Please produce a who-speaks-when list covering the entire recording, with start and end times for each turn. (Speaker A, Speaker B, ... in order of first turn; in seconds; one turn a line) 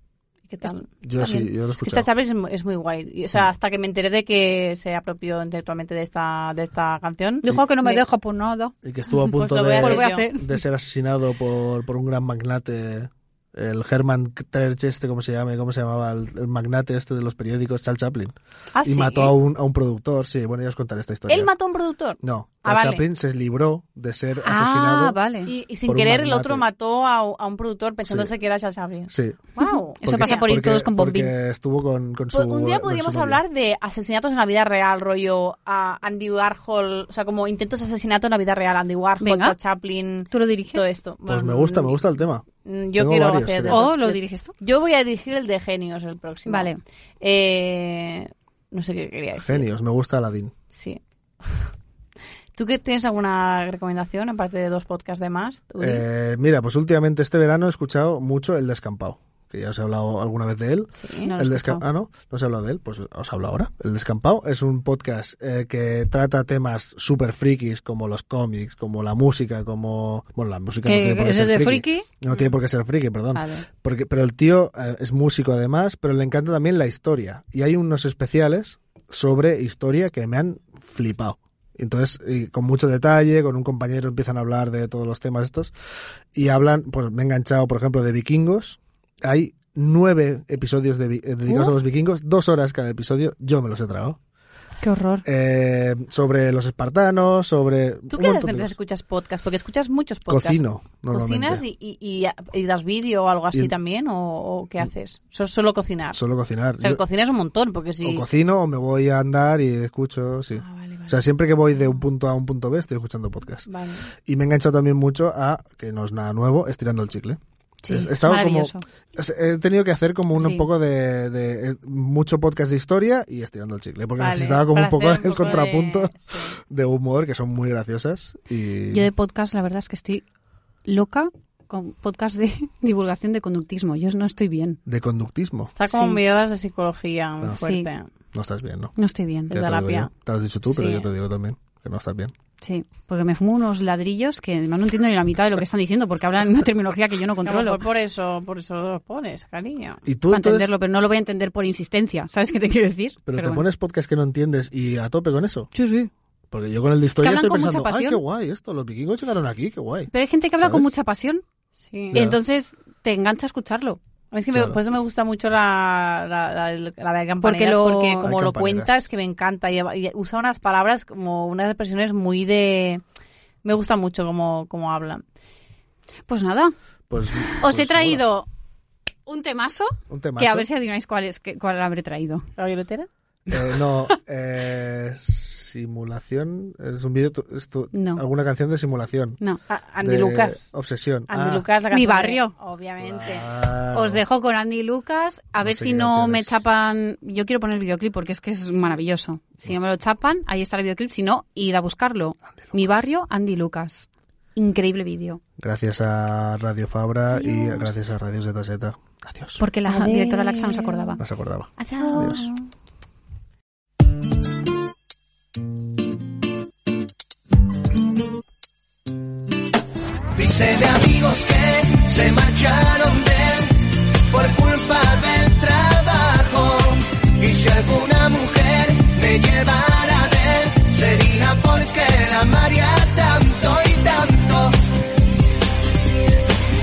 Speaker A: 0.5-8.0
Speaker B: 0.6-1.4
Speaker C: 1.0-2.1
Speaker B: 7.4-8.7
Speaker C: 8.8-21.5
Speaker A: 9.2-10.2
Speaker B: 9.8-10.6
Speaker A: 18.7-19.3
Speaker A: 21.3-23.0
Speaker C: 22.2-25.2
Speaker B: 24.4-25.5
Speaker A: 25.4-30.6
Speaker C: 25.9-26.6
Speaker C: 28.1-28.3
Speaker C: 29.1-29.4
Speaker B: 29.6-31.3
Speaker C: 30.0-33.4
Speaker A: 32.3-42.1
Speaker B: 39.2-39.5
Speaker B: 40.3-41.0
Speaker C: 41.3-42.4
Speaker A: 42.6-49.7
Speaker C: 43.0-43.9
Speaker B: 43.7-44.5
Speaker B: 46.5-46.8
Speaker C: 49.4-50.5
Speaker A: 50.7-51.7
Speaker A: 52.5-56.0
Speaker C: 55.8-85.7
Speaker A: 61.0-61.3
Speaker B: 61.2-61.8
Speaker B: 70.8-72.0
Speaker B: 73.3-73.7
Speaker C: 86.3-94.2
Speaker B: 91.5-91.7
Speaker B: 94.8-95.2
Speaker C: 95.2-98.7
Speaker A: 98.1-106.2
Speaker C: 100.3-101.6
Speaker C: 106.1-107.0
Speaker A: 106.8-108.3
Speaker C: 108.0-113.7
Speaker A: 110.5-111.2
Speaker A: 113.7-114.1
Speaker C: 114.2-126.1
Speaker B: 117.8-118.8
Speaker B: 120.3-120.7
Speaker A: 124.2-126.6
Speaker C: 126.7-129.1
Speaker B: 128.9-130.2
Speaker B: 130.8-134.8
Speaker C: 134.8-135.7
Speaker A: 135.7-138.1
Speaker B: 135.9-136.2
Speaker B: 137.6-137.9
Speaker C: 138.3-138.9
Speaker B: 138.9-139.5
Speaker A: 139.5-140.1
Speaker C: 139.5-142.3
Speaker A: 140.7-141.1
Speaker B: 142.6-147.8
Speaker A: 147.4-150.0
Speaker C: 150.0-150.7
Speaker B: 150.3-153.6
Speaker C: 153.2-155.7
Speaker B: 155.7-156.1
Speaker C: 156.5-160.9
Speaker B: 157.2-158.2
Speaker B: 160.1-161.4
Speaker A: 161.8-162.2
Speaker C: 162.1-162.4
Speaker B: 162.1-164.0
Speaker A: 164.3-173.0
Speaker C: 164.5-164.8
Speaker B: 167.4-168.3
Speaker C: 168.2-169.0
Speaker A: 173.6-175.2
Speaker B: 176.3-176.7
Speaker C: 177.1-178.2
Speaker B: 177.5-178.5
Speaker B: 179.3-182.5
Speaker C: 180.1-180.7
Speaker A: 182.6-183.1
Speaker C: 183.5-189.4
Speaker B: 187.9-188.2
Speaker A: 189.7-190.7
Speaker C: 190.0-191.6
Speaker A: 191.3-193.5
Speaker B: 191.9-192.5
Speaker C: 193.0-194.2
Speaker B: 193.9-205.4
Speaker C: 195.6-196.6
Speaker C: 202.6-203.0
Speaker C: 205.6-209.6
Speaker B: 209.6-211.2
Speaker A: 209.9-211.2
Speaker C: 211.2-212.5
Speaker A: 211.8-212.6
Speaker D: 220.3-234.8